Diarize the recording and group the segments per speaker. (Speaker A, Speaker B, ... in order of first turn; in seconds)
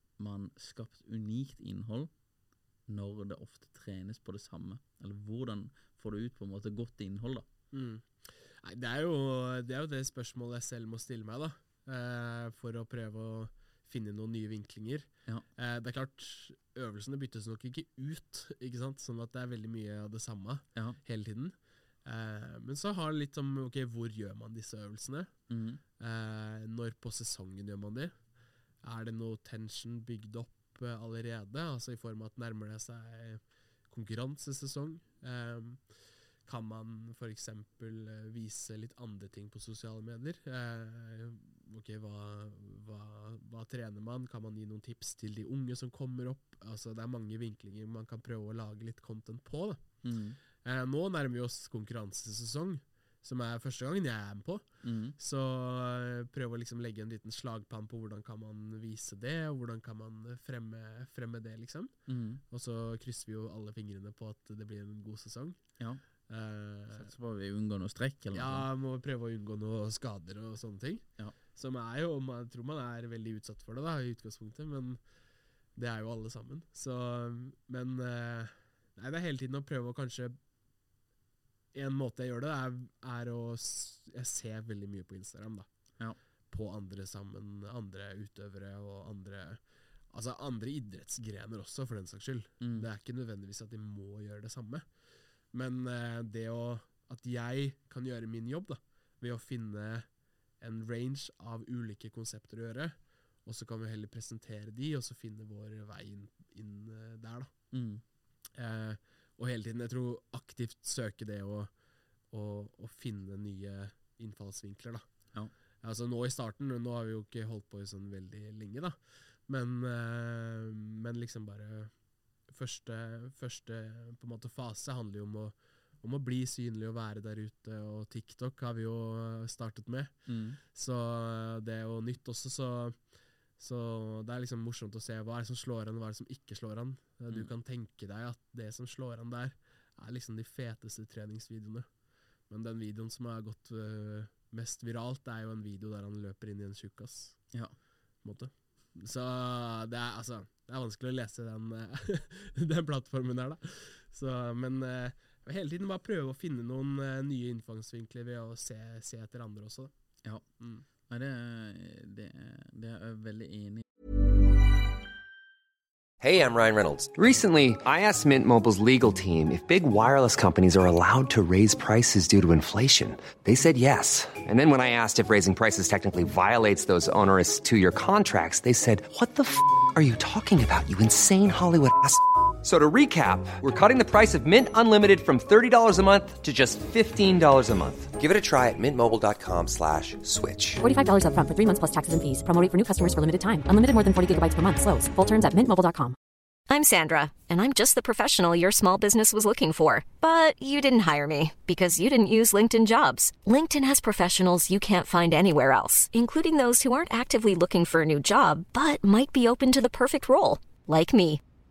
Speaker A: 0.2-2.1, 2.9-7.5, 25.5-25.8, 50.0-50.4, 54.8-55.2, 62.1-62.4, 66.9-68.7, 92.6-92.9, 107.7-108.0, 130.3-130.6, 161.1-163.8
Speaker B: 7.7-25.3, 26.0-28.1, 28.8-35.8, 36.5-50.0, 50.6-61.9, 62.5-65.6, 66.3-67.1, 68.3-75.0, 75.8-80.4, 81.7-85.7, 86.5-94.8, 95.5-100.1, 100.6-107.5, 108.5-111.7, 112.3-115.1, 115.8-121.9, 122.5-133.0, 133.6-141.9, 142.5-147.5, 148.2-159.9
Speaker C: 166.2-190.8
Speaker D: 190.8-196.2
Speaker E: 196.7-211.4